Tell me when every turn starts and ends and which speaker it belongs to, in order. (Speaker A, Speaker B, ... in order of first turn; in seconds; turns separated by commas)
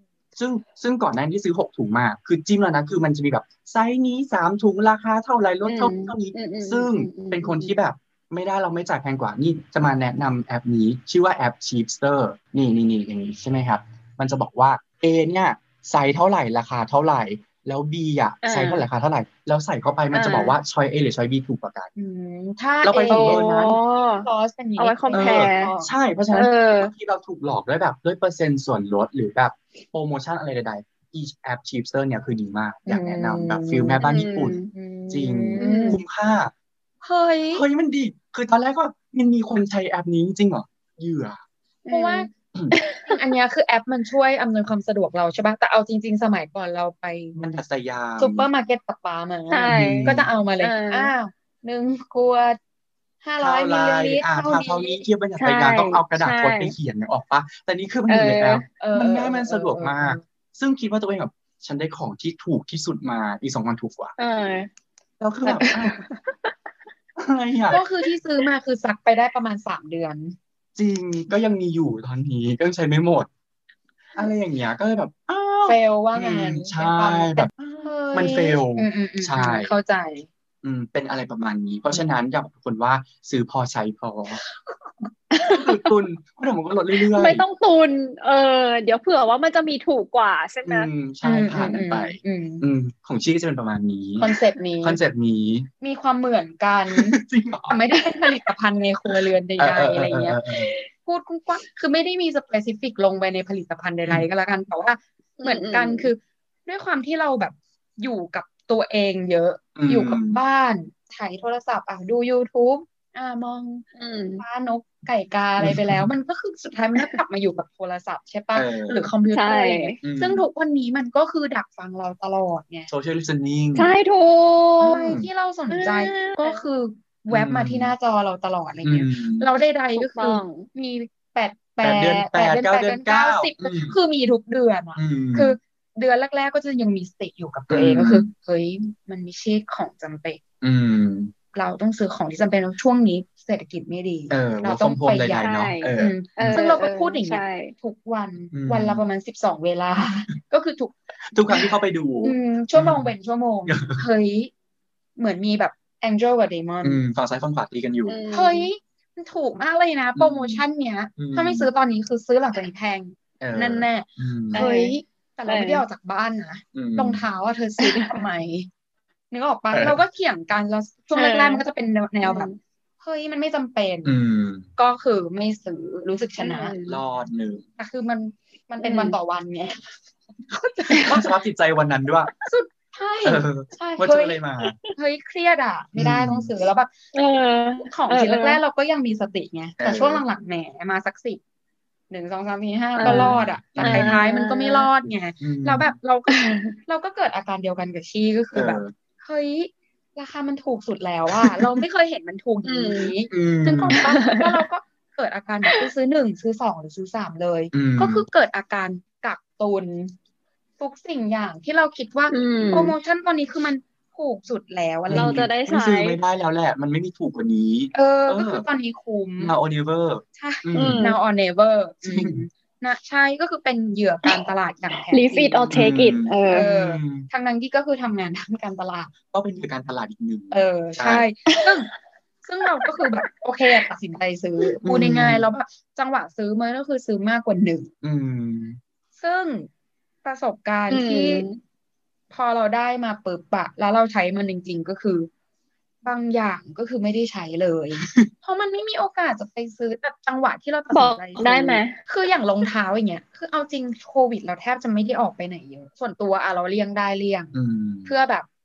Speaker A: 0.3-21.9, Speaker B: 5.7-7.7, Speaker B: 18.4-18.8, Speaker B: 20.1-20.6, Speaker C: 21.9-25.9, Speaker A: 22.8-23.7, Speaker B: 23.1-25.7, Speaker A: 25.1-34.6, Speaker B: 26.3-26.9, Speaker C: 32.9-34.0, Speaker B: 34.0-34.7, Speaker C: 34.7-36.0, Speaker A: 35.1-36.5, Speaker B: 35.6-36.0, Speaker C: 37.0-37.6, Speaker A: 37.5-41.4, Speaker B: 41.9-43.2, Speaker C: 41.9-42.3, Speaker C: 43.0-47.4, Speaker A: 47.3-48.5, Speaker C: 48.2-52.6, Speaker B: 49.5-51.1, Speaker A: 49.7-50.3, Speaker C: 53.2-55.0, Speaker A: 53.4-64.2, Speaker B: 55.4-56.7, Speaker B: 58.1-58.6, Speaker C: 58.8-60.2, Speaker B: 64.2-64.7, Speaker A: 65.2-66.0, Speaker B: 65.4-66.5, Speaker A: 67.2-67.8, Speaker C: 67.7-70.3, Speaker A: 70.8-73.3, Speaker A: 74.1-79.7, Speaker C: 75.6-80.3, Speaker A: 80.6-84.4, Speaker C: 84.4-85.1, Speaker B: 85.3-85.9, Speaker A: 85.4-87.4, Speaker B: 87.1-90.9, Speaker A: 90.6-94.3, Speaker C: 91.2-92.6, Speaker C: 94.2-95.0, Speaker A: 94.8-95.7, Speaker C: 95.8-100.4, Speaker A: 96.9-97.8, Speaker A: 99.6-100.7, Speaker B: 100.5-100.9, Speaker C: 101.0-113.9, Speaker B: 105.4-106.1, Speaker A: 109.8-110.4, Speaker B: 113.9-114.4, Speaker C: 114.4-122.9, Speaker A: 115.6-116.1, Speaker A: 118.5-119.0, Speaker B: 119.3-120.0, Speaker A: 120.0-120.4, Speaker A: 122.9-123.9, Speaker B: 123.7-125.0, Speaker C: 124.8-140.4, Speaker A: 125.0-125.3, Speaker B: 125.7-126.6, Speaker A: 127.3-127.9, Speaker A: 128.8-129.4, Speaker B: 129.9-130.7, Speaker A: 131.8-133.9, Speaker A: 134.9-135.6, Speaker A: 137.7-138.3, Speaker A: 140.6-141.3, Speaker C: 141.5-150.9, Speaker A: 144.3-146.6, Speaker B: 145.3-147.7, Speaker A: 148.5-149.0, Speaker A: 151.3-153.1, Speaker C: 152.2-154.5, Speaker A: 153.7-154.0, Speaker C: 155.2-157.0, Speaker A: 156.8-158.2, Speaker B: 158.1-158.7, Speaker C: 158.3-168.7, Speaker A: 160.1-160.6, Speaker A: 161.2-161.7, Speaker A: 163.4-164.7, Speaker B: 164.5-164.9, Speaker B: 165.5-165.8, Speaker A: 166.7-167.2, Speaker B: 167.8-168.2, Speaker C: 169.3-174.1, Speaker A: 169.7-170.0, Speaker B: 171.1-171.6, Speaker B: 172.2-172.6, Speaker A: 174.0-174.7, Speaker C: 174.8-176.7, Speaker B: 176.4-177.0, Speaker A: 176.8-177.7, Speaker C: 177.8-179.9, Speaker B: 178.8-179.1, Speaker C: 180.5-181.3, Speaker A: 181.0-182.3, Speaker C: 182.4-184.4, Speaker A: 183.2-184.8, Speaker B: 184.6-184.9, Speaker C: 184.9-186.9, Speaker A: 185.9-186.5, Speaker B: 187.1-188.6, Speaker C: 187.9-191.4, Speaker A: 189.8-190.2, Speaker C: 192.1-210.1, Speaker B: 193.0-194.9, Speaker A: 193.0-194.2, Speaker A: 195.4-195.9, Speaker B: 196.3-196.8, Speaker A: 198.5-198.9, Speaker B: 202.6-203.1, Speaker A: 203.3-204.0, Speaker B: 203.9-204.6, Speaker A: 207.7-208.2, Speaker C: 210.8-215.4, Speaker B: 212.3-212.9, Speaker A: 215.1-218.6, Speaker B: 215.1-216.2, Speaker C: 217.9-219.6, Speaker A: 219.4-221.1, Speaker C: 220.4-225.7, Speaker B: 220.7-221.2, Speaker A: 222.0-222.4, Speaker B: 225.1-226.7, Speaker A: 225.7-227.3, Speaker C: 226.5-229.1, Speaker A: 229.3-231.2, Speaker C: 230.5-231.9, Speaker B: 231.5-231.7, Speaker C: 232.4-237.9, Speaker A: 234.8-235.4, Speaker A: 238.0-238.8, Speaker C: 239.2-239.7, Speaker C: 240.2-241.4, Speaker B: 240.9-241.6, Speaker C: 242.3-245.3, Speaker C: 246.0-257.5, Speaker A: 248.0-248.3, Speaker B: 250.9-252.0, Speaker A: 257.5-258.1, Speaker C: 258.0-258.5